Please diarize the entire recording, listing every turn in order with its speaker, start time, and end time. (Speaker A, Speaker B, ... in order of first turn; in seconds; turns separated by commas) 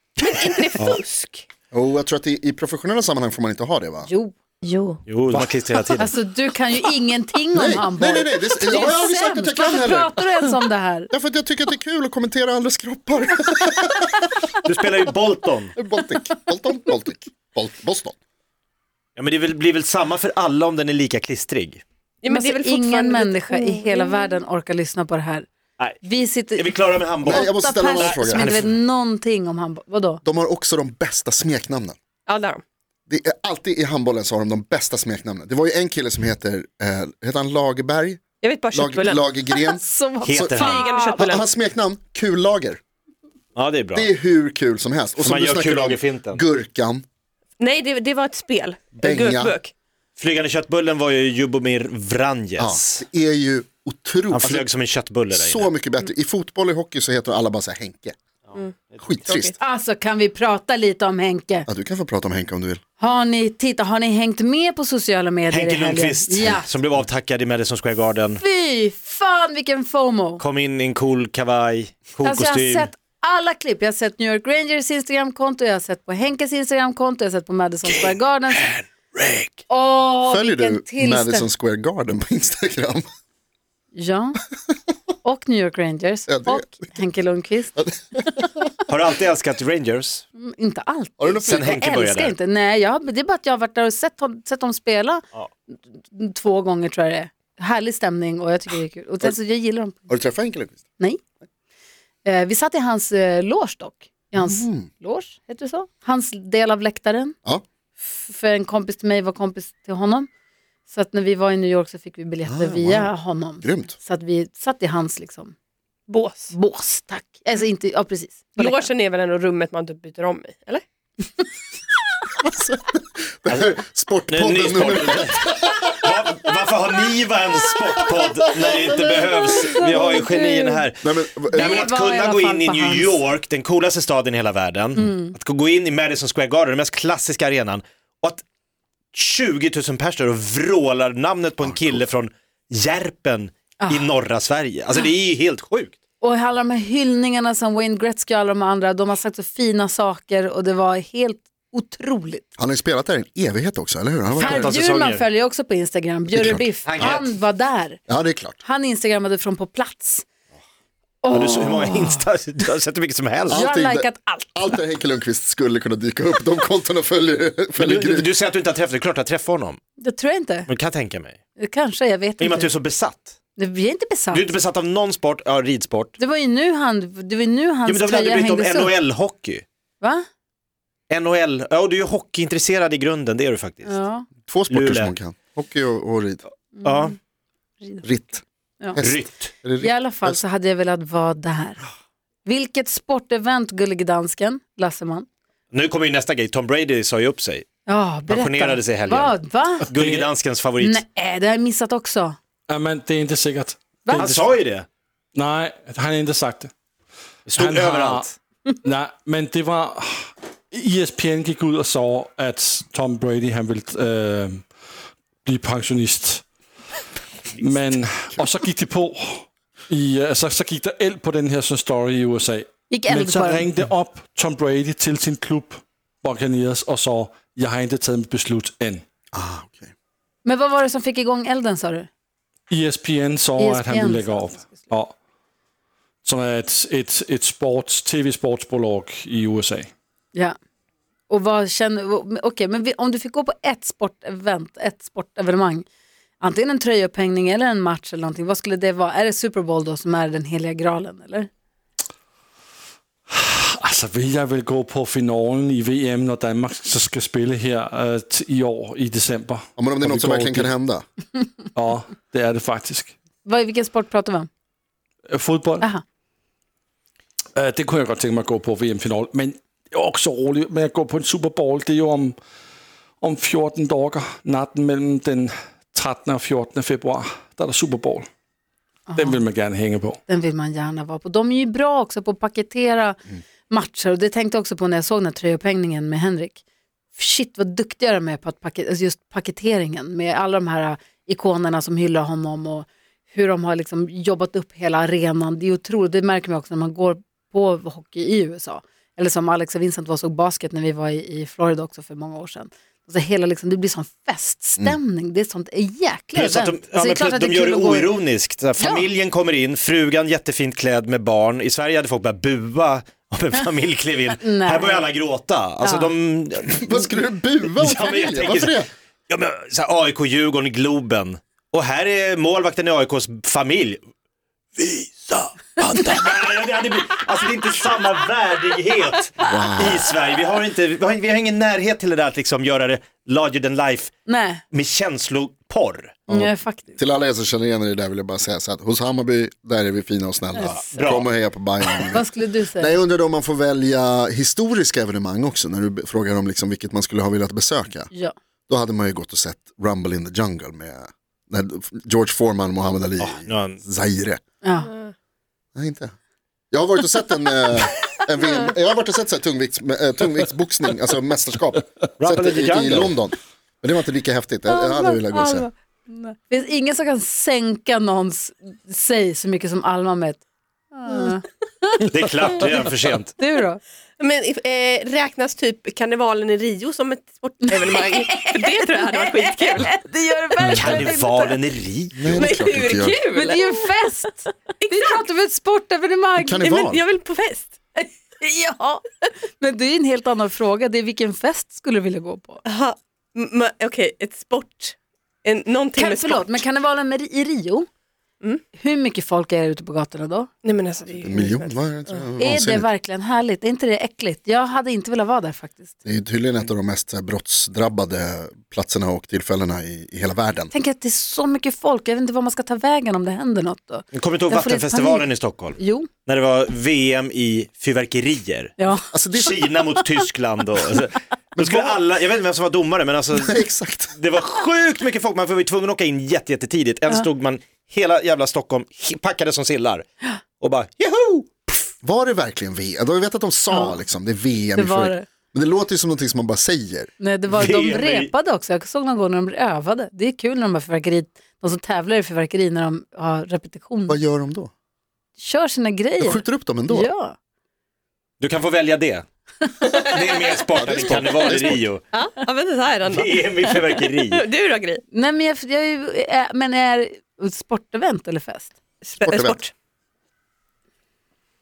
Speaker A: 0.2-1.4, Speaker B: 1.7-4.1, Speaker C: 4.0-4.3, Speaker D: 5.1-6.1, Speaker C: 6.0-11.1, Speaker B: 7.5-10.3, Speaker B: 11.1-14.4, Speaker D: 14.6-15.7, Speaker B: 15.8-18.1, Speaker D: 19.1-21.8, Speaker A: 22.2-24.4, Speaker C: 22.3-25.5, Speaker C: 26.0-30.2, Speaker D: 26.5-28.7, Speaker B: 27.2-28.7, Speaker B: 30.2-32.0, Speaker A: 32.3-32.6, Speaker B: 33.1-38.2, Speaker A: 38.4-39.2, Speaker B: 38.7-42.8, Speaker C: 39.5-41.3, Speaker D: 40.2-40.8, Speaker A: 40.6-41.4, Speaker D: 43.5-44.1, Speaker B: 43.9-47.0, Speaker D: 45.2-46.4, Speaker A: 47.6-49.7, Speaker B: 49.0-49.5, Speaker D: 50.2-53.0, Speaker B: 52.6-54.7, Speaker D: 54.3-55.7, Speaker B: 55.3-58.1, Speaker D: 58.5-59.1, Speaker B: 59.0-59.5, Speaker A: 59.3-59.6, Speaker C: 59.6-61.7, Speaker B: 61.7-62.8, Speaker C: 63.0-66.7, Speaker D: 65.5-68.4, Speaker C: 68.4-70.4, Speaker D: 70.4-72.9, Speaker C: 72.2-78.7, Speaker D: 78.5-79.6, Speaker C: 79.7-81.5, Speaker B: 80.3-83.0, Speaker C: 83.9-84.4, Speaker C: 85.2-87.8, Speaker B: 86.3-86.7, Speaker B: 87.8-88.4, Speaker D: 88.9-90.2, Speaker C: 90.4-100.1, Speaker B: 91.2-91.8, Speaker D: 91.5-92.3, Speaker B: 100.1-100.8, Speaker C: 102.2-107.3, Speaker B: 104.4-104.9, Speaker C: 108.0-110.3, Speaker C: 110.9-115.5, Speaker B: 112.5-113.9, Speaker A: 116.1-116.5, Speaker C: 116.5-118.9, Speaker A: 118.5-120.8, Speaker B: 122.4-126.1, Speaker D: 124.3-138.4, Speaker B: 128.2-128.6, Speaker C: 129.7-130.8, Speaker B: 131.0-131.9, Speaker C: 131.5-133.2, Speaker C: 134.9-135.3, Speaker D: 139.1-145.9, Speaker C: 143.8-144.1, Speaker C: 146.2-152.4, Speaker B: 152.6-154.7, Speaker D: 154.3-155.2, Speaker C: 154.4-158.0, Speaker B: 156.3-157.2, Speaker D: 156.8-157.3, Speaker B: 158.1-158.6, Speaker C: 158.6-160.2, Speaker C: 161.2-162.2, Speaker D: 161.3-163.7, Speaker B: 163.5-168.3, Speaker C: 163.5-164.8, Speaker D: 167.8-169.8, Speaker C: 170.0-170.7, Speaker D: 170.7-171.4, Speaker C: 171.6-172.7, Speaker D: 172.4-173.3, Speaker C: 173.6-174.5, Speaker D: 174.3-176.2, Speaker C: 176.2-178.9, Speaker D: 177.8-179.6, Speaker D: 181.1-183.9, Speaker C: 183.8-184.3, Speaker B: 184.5-186.4, Speaker D: 184.7-185.1, Speaker C: 186.8-187.1, Speaker D: 186.8-187.2, Speaker B: 188.0-188.4, Speaker B: 188.9-190.4, Speaker D: 189.0-189.5, Speaker C: 189.8-191.8, Speaker C: 192.4-195.3, Speaker D: 195.7-197.7, Speaker C: 197.8-199.9, Speaker D: 198.3-199.3, Speaker D: 199.9-201.0, Speaker E: 199.9-200.3, Speaker C: 200.8-202.3, Speaker E: 202.7-204.3, Speaker C: 204.0-204.5, Speaker D: 204.1-204.8, Speaker E: 205.3-206.7, Speaker D: 207.5-208.3, Speaker E: 207.5-208.3, Speaker E: 208.8-214.7, Speaker E: 215.4-216.4, Speaker E: 217.6-229.0, Speaker C: 222.9-223.7, Speaker B: 229.3-229.9, Speaker C: 230.4-232.1, Speaker E: 232.7-235.1, Speaker C: 233.6-234.9, Speaker E: 236.2-239.9, Speaker C: 241.3-245.8, Speaker C: 246.4-251.5, Speaker E: 253.3-260.7, Speaker B: 259.8-261.0, Speaker E: 261.7-263.1, Speaker C: 263.4-264.5, Speaker E: 265.3-265.9, Speaker E: 267.6-272.4, Speaker E: 273.2-278.3, Speaker C: 279.1-279.4, Speaker E: 279.2-280.2, Speaker C: 280.3-286.6, Speaker C: 287.1-308.2, Speaker D: 306.3-324.0, Speaker C: 308.8-309.1, Speaker C: 314.4-315.1, Speaker C: 315.8-316.1, Speaker B: 316.8-318.9, Speaker D: 324.8-334.1, Speaker B: 329.4-330.1, Speaker C: 334.2-334.6, Speaker D: 334.7-336.2, Speaker B: 336.3-348.1, Speaker C: 336.3-337.0, Speaker C: 340.5-341.1, Speaker D: 340.8-341.3, Speaker C: 342.1-342.9, Speaker B: 348.7-354.4, Speaker D: 353.2-353.8, Speaker C: 354.6-354.9, Speaker A: 354.9-355.1, Speaker B: 355.8-356.1, Speaker B: 356.7-365.7, Speaker D: 362.2-363.1, Speaker C: 364.7-370.4, Speaker C: 370.9-372.8, Speaker D: 372.1-373.3, Speaker C: 373.4-373.8, Speaker A: 374.2-379.9, Speaker C: 377.8-381.6, Speaker D: 380.7-382.4, Speaker B: 382.2-383.2, Speaker A: 382.3-383.6, Speaker C: 383.3-386.7, Speaker A: 384.8-385.2, Speaker B: 386.4-387.0, Speaker A: 386.6-387.8, Speaker C: 388.0-389.0, Speaker C: 389.6-392.6, Speaker A: 392.6-396.6, Speaker C: 395.9-397.9, Speaker C: 398.8-400.5, Speaker A: 400.6-402.2, Speaker B: 401.2-402.9, Speaker C: 402.4-405.9, Speaker B: 406.0-410.7, Speaker C: 410.7-416.1, Speaker D: 414.1-418.7, Speaker C: 418.8-419.1, Speaker B: 419.1-419.7, Speaker D: 419.3-430.1, Speaker B: 421.6-422.0, Speaker B: 423.4-424.1, Speaker D: 430.6-431.5, Speaker B: 432.0-437.1, Speaker C: 434.8-435.2, Speaker C: 437.2-444.2, Speaker D: 437.5-438.3, Speaker B: 444.1-444.7, Speaker C: 445.4-447.4, Speaker B: 446.2-447.1, Speaker D: 448.4-449.2, Speaker D: 449.9-452.0, Speaker B: 450.8-451.9, Speaker A: 452.1-455.0, Speaker D: 453.1-454.4, Speaker C: 455.1-458.7, Speaker A: 459.0-459.7, Speaker B: 459.2-459.6